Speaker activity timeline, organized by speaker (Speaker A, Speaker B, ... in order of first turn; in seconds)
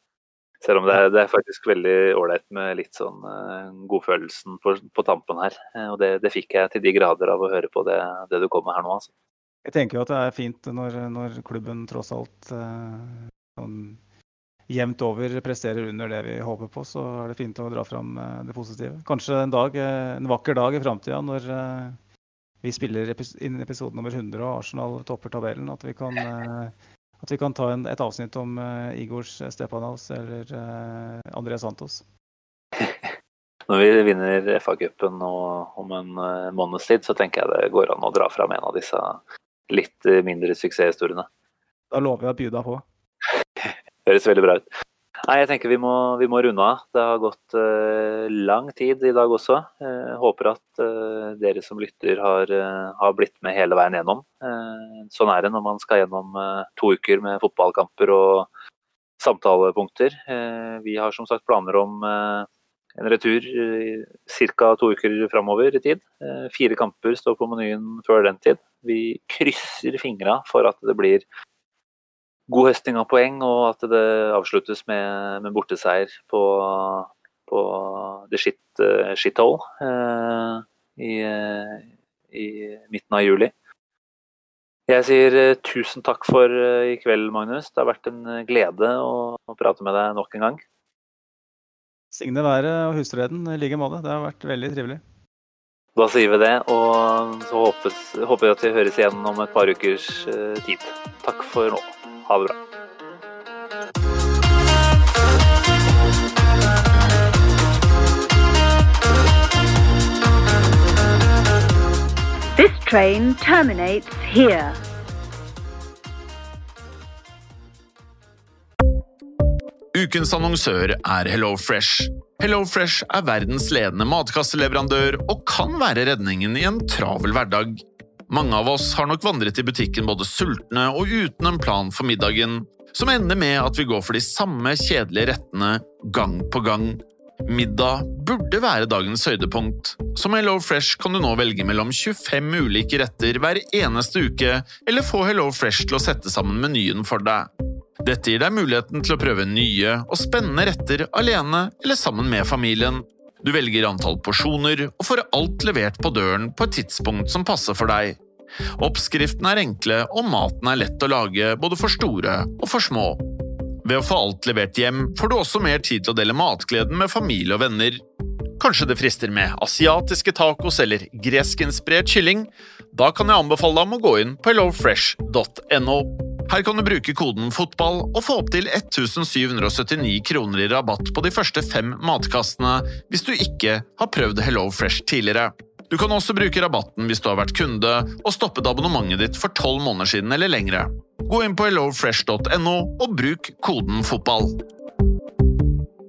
Speaker A: 0.6-9.1, 32.8-33.1, 33.7-41.3, 43.6-44.7, 45.3-58.5, 59.2-71.2, 72.5-83.5, 84.9-90.6, 96.0-102.6
Speaker B: 9.7-14.0, 14.7-22.0, 22.6-32.0, 41.9-42.9, 92.1-95.0
Speaker C: 112.5-114.8
Speaker D: 119.9-147.5, 148.0-158.2, 158.8-163.2, 163.8-168.0, 168.6-194.6